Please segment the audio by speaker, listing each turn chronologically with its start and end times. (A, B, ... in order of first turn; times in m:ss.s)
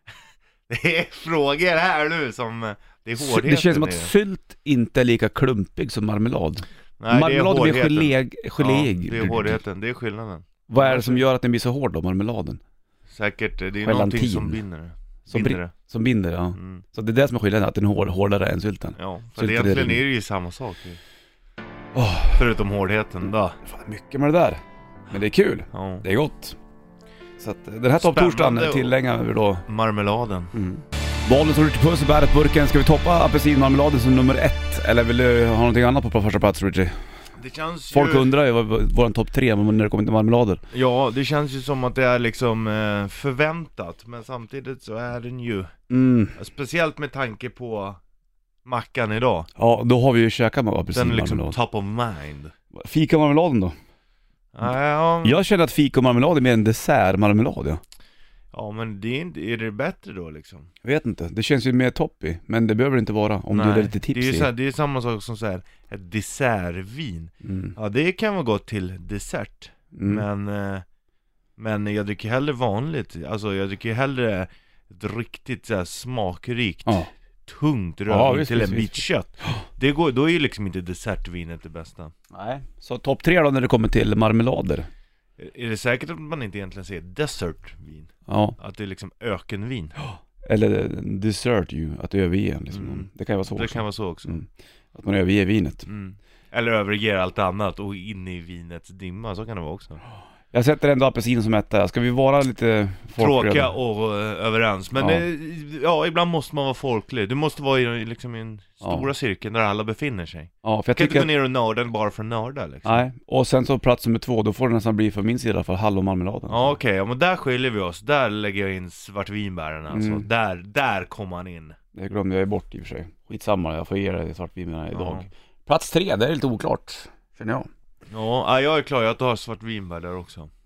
0:00.7-0:04.1 A
0:03.2-0:09.6 B
0:07.0-0:11.2 A
0:10.7-0:12.6 B
0:13.1-0:15.7 A
0:13.8-0:14.6 B
0:15.3-0:20.0 B
0:16.6-0:16.8 A
0:19.0-0:21.0 A
0:21.9-0:22.4 B
0:22.4-0:23.6 A
0:23.6-0:26.6 B
0:25.7-0:26.1 A
0:27.4-0:29.7 B
0:28.0-0:29.0 A
0:29.7-0:30.5 A
0:30.5-0:37.0 B
0:37.4-0:38.3 A
0:37.9-0:40.6 B
0:40.7-0:45.7 A
0:45.9-0:46.4 B
0:46.4-0:48.0 A
0:48.6-0:49.5 A
0:49.6-0:51.6 B
0:50.9-0:52.5 A
0:52.7-0:53.8 B
0:54.5-0:55.4 A
0:55.2-0:57.8 B
0:58.5-1:00.7 A
1:00.8-1:04.5 B
1:03.5-1:10.8 A
1:07.4-1:07.7 B
1:09.9-1:10.2 B
1:11.6-1:22.1 A
1:18.1-1:19.6 B
1:22.3-1:24.9 B
1:25.4-1:29.9 A
1:28.3-1:28.6 B
1:30.0-1:35.8 B
1:32.7-1:34.4 A
1:35.9-1:40.0 A
1:40.5-1:43.7 B
1:43.2-1:53.0 A
1:45.0-1:45.2 B
1:48.8-1:49.1 B
1:50.6-1:51.3 B
1:52.8-1:56.8 B
1:56.5-2:01.8 A
1:59.9-2:00.2 B
2:02.0-2:07.7 B
2:04.9-2:05.3 A
2:08.1-2:10.5 A